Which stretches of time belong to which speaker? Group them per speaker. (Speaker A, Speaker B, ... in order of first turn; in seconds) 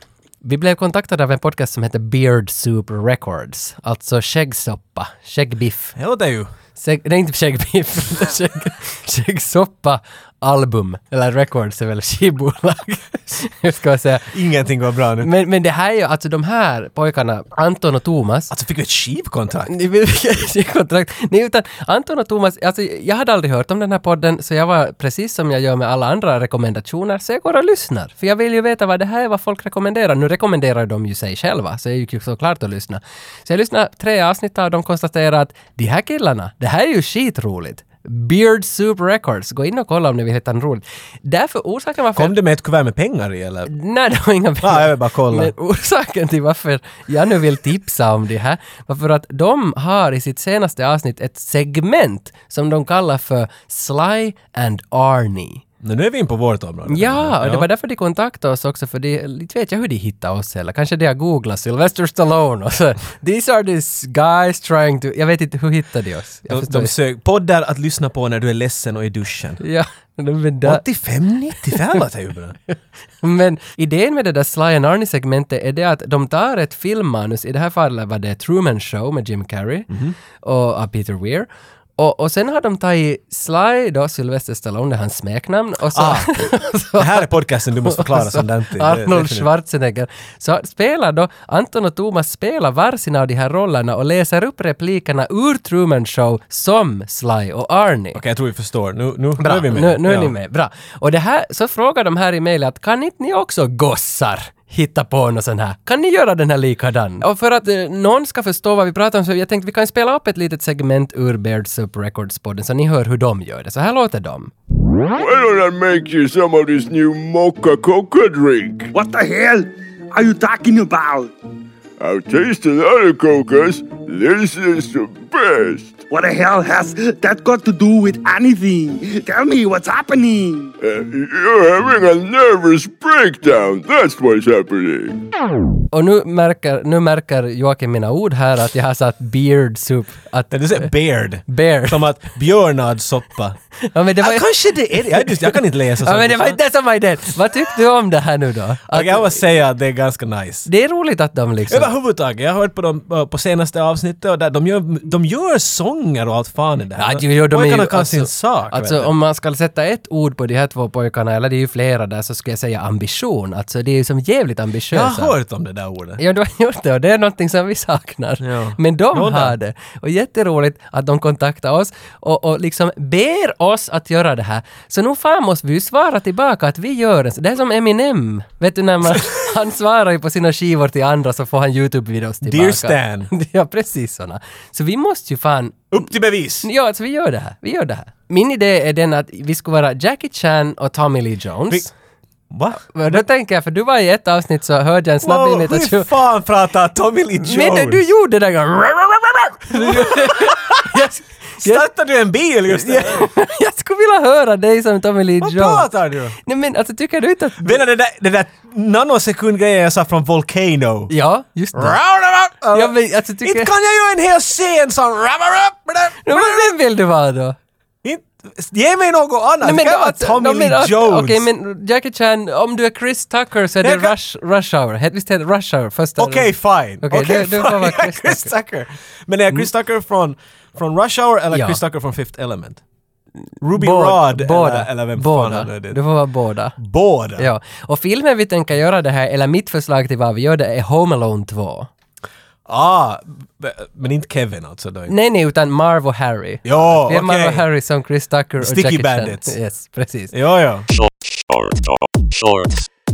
Speaker A: 0.4-5.9, 6.7-14.3, 15.2-18.5, 19.7-42.4, 43.7-55.6, 56.9-66.9, 69.6-70.8, 71.6-72.0, 72.7-79.9, 80.4-87.3, 87.8-98.2, 99.4-114.5, 135.9-140.9, 141.4-142.1, 143.9-149.4, 150.7-151.9, 157.0-165.3, 166.2-186.1, 186.6-191.9, 192.9-196.1, 197.4-201.8, 202.7-205.9, 206.4-207.8, 211.1-212.0, 212.7-213.7, 216.2-217.6, 219.6-228.5, 231.5-231.8, 233.7-236.8, 237.4-241.9, 245.1-250.3
Speaker B: 6.0-6.5, 14.3-15.3, 18.5-19.7, 42.1-43.7, 44.6-45.5, 55.8-57.7, 66.5-69.6, 70.6-72.6, 79.9-80.1, 85.9-89.5, 98.1-100.3, 140.5-143.6, 144.2-146.6, 148.9-150.7, 151.7-159.1, 164.9-166.2, 168.4-169.5, 182.4-183.3, 185.9-186.7, 192.5-193.2, 195.2-198.0, 199.7-201.1, 201.6-203.3, 205.4-206.3, 207.6-211.1, 211.7-216.7, 218.0-221.4, 223.8-224.1, 226.2-232.8, 233.6-236.0, 236.8-237.5, 242.7-245.1, 246.6-247.6, 248.6-249.6, 250.3-250.9
Speaker C: 115.1-118.9, 122.0-126.0, 130.8-135.2
Speaker D: 118.9-121.3, 126.1-130.7
Speaker E: 250.9-252.9